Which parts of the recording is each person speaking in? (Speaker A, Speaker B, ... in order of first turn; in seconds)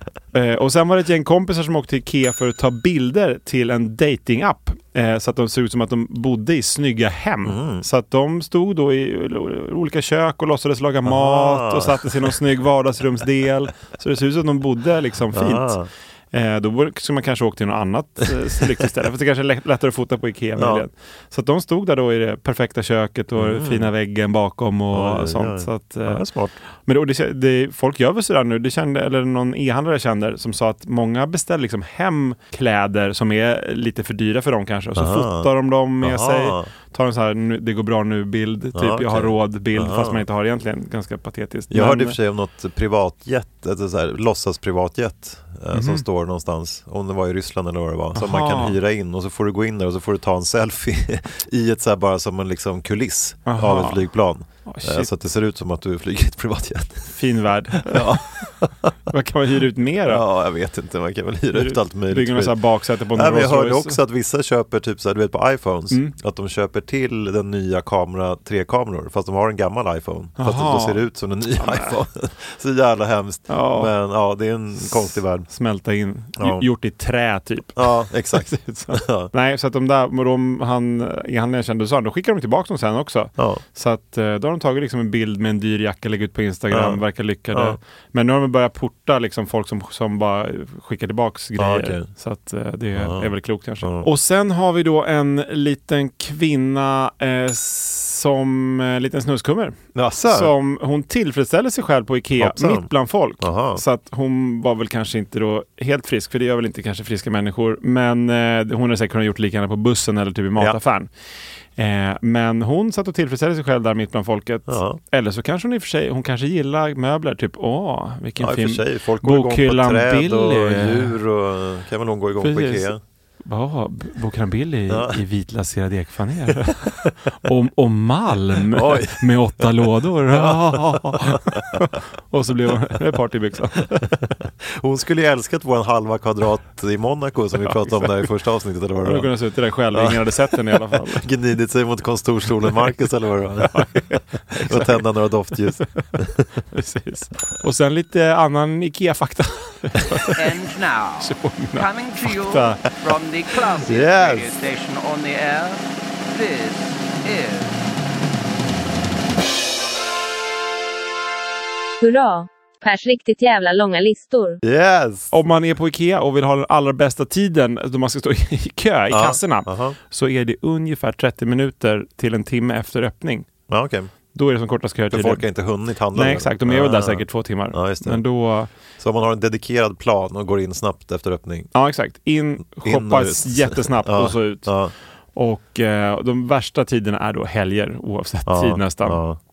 Speaker A: 0.3-15.8, 16.3-26.2, 26.8-42.2, 45.7-46.0, 48.1-48.8, 53.5-54.0, 54.7-55.1, 57.1-58.3, 59.1-60.2, 61.5-64.0, 70.4-71.0, 71.6-72.0, 73.5-73.9, 74.8-111.1, 111.8-121.2, 122.4-122.9, 123.5-134.1, 137.6-138.3, 139.0-141.3, 143.6-145.0, 146.7-150.4, 151.2-151.9, 152.4-152.9, 165.3-173.5, 174.3-175.4, 176.1-178.7, 181.8-184.7, 185.4-189.2
Speaker B: 7.5-7.8, 11.1-12.3, 15.3-15.9, 20.6-20.9, 23.4-23.9, 24.9-26.6, 35.0-35.5, 36.0-36.7, 38.8-40.2, 41.7-57.2, 57.8-58.9, 60.1-62.6, 63.1-75.5, 76.4-76.7, 77.8-79.3, 86.7-87.0, 87.5-87.8, 91.6-92.1, 93.0-94.1, 100.0-100.5, 102.4-103.8, 114.7-115.0, 118.4-123.0, 124.9-125.2, 128.7-129.2, 130.3-131.8, 134.2-139.3, 139.9-143.9, 144.6-146.4, 153.8-154.6, 164.6-165.3, 169.1-170.0, 173.7-174.1, 175.1-178.2, 179.0-181.7, 182.7-184.9, 188.5-189.4
Speaker C: 150.4-157.9
Speaker D: 162.0-164.6